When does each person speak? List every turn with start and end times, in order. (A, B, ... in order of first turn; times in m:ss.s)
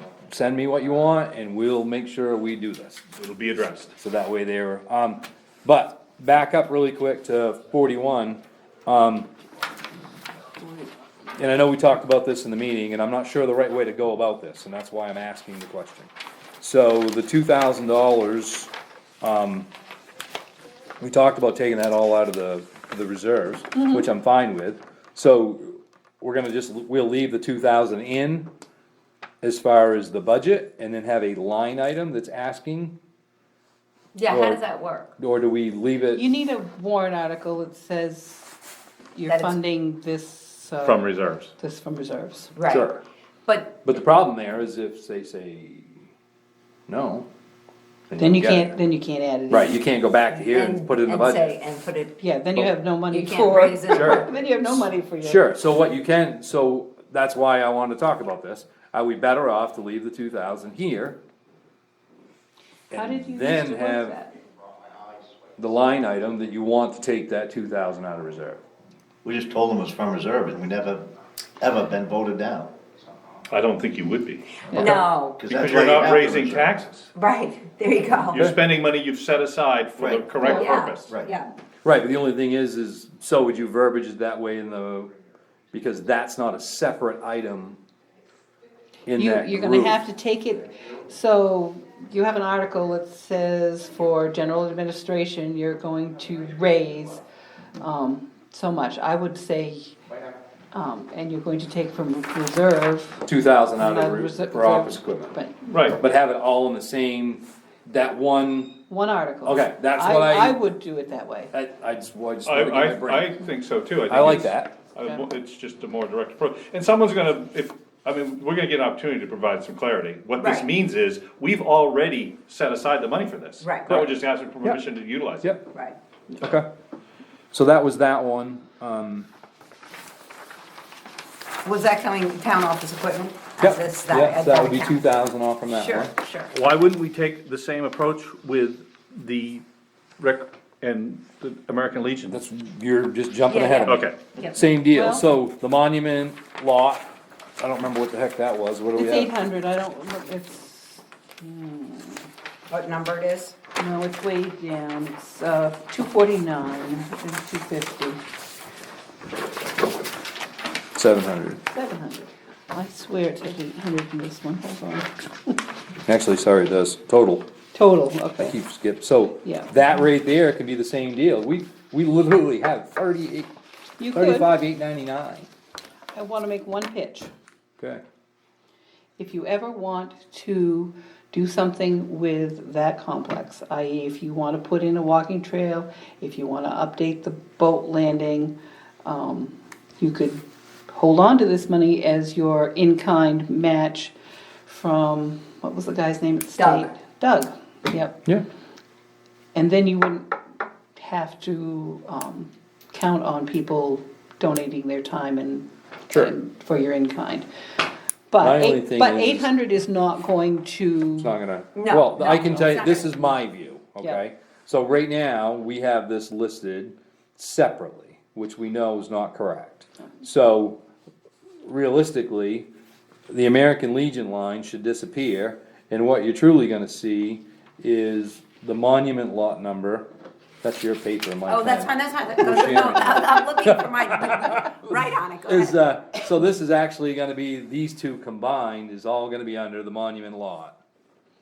0:00.3-0:03.0 A
0:03.2-0:03.9 B
0:04.0-0:09.3 A
0:11.4-0:16.1 A
0:16.6-0:19.7 A
0:21.0-0:28.5 A
0:29.4-0:32.9 A
0:34.2-0:35.1 C
0:34.3-0:34.6 A
0:35.2-0:36.3 A
0:36.2-0:38.5 D
0:39.2-0:42.5 D
0:39.3-0:39.6 C
0:40.8-0:41.5 B
0:42.6-0:42.9 C
0:42.7-0:43.0 A
0:43.5-0:43.8 C
0:43.8-0:46.0 A
0:46.9-0:47.3 A
0:48.1-0:48.8 A
0:48.2-0:49.8 D
0:49.5-0:51.6 A
0:50.4-0:52.2 C
0:52.2-0:55.4 D
0:53.1-0:54.4 C
0:53.9-1:01.2 A
1:02.9-1:04.2 A
1:02.9-1:04.4 D
1:05.6-1:08.6 A
1:09.2-1:11.1 E
1:11.6-1:12.7 E
1:13.5-1:14.6 B
1:14.7-1:15.4 C
1:15.4-1:16.7 E
1:15.5-1:17.1 B
1:17.2-1:18.5 C
1:18.3-1:21.1 B
1:20.0-1:20.4 E
1:20.4-1:21.5 C
1:21.1-1:21.3 E
1:21.8-1:25.1 A
1:25.7-1:27.8 A
1:29.1-1:30.0 A
1:29.2-1:37.2 D
1:37.8-1:40.0 D
1:40.7-1:43.3 D
1:43.3-1:45.4 A
1:43.8-1:45.6 D
1:45.7-1:46.0 B
1:46.0-1:48.8 A
1:48.9-1:51.5 D
1:49.4-1:50.6 A
1:51.5-1:53.4 A
1:52.4-2:05.5 B
1:54.1-1:54.8 A
2:00.4-2:00.7 C
2:03.6-2:04.1 C
2:05.7-2:06.0 C
2:06.4-2:06.7 A
2:07.5-2:09.3 A
2:11.6-2:15.1 C
2:13.6-2:16.1 A
2:15.7-2:16.5 C
2:16.5-2:19.6 B
2:20.2-2:22.4 B
2:22.3-2:29.3 A
2:23.5-2:24.6 C
2:23.9-2:24.2 B
2:24.8-2:25.2 D
2:29.0-2:32.3 D
2:32.7-2:33.6 C
2:33.8-2:38.2 D
2:41.0-2:41.6 A
2:41.7-2:45.6 D
2:46.1-2:47.5 A
2:47.7-2:48.6 D
2:48.4-2:53.5 A
2:49.4-2:49.7 D
2:54.0-2:54.5 D
2:54.1-2:55.5 A
2:56.1-2:57.3 D
2:59.2-3:14.1 D
3:14.7-3:18.2 D
3:16.6-3:16.9 C
3:19.6-3:20.3 D
3:21.0-3:27.5 D
3:28.3-3:31.3 D
3:28.4-3:29.5 A
3:31.2-3:40.8 A
3:31.8-3:33.3 C
3:41.6-3:42.7 A
3:43.3-3:50.1 A
3:50.6-3:54.6 A
3:51.5-3:55.8 C
3:55.5-4:00.8 A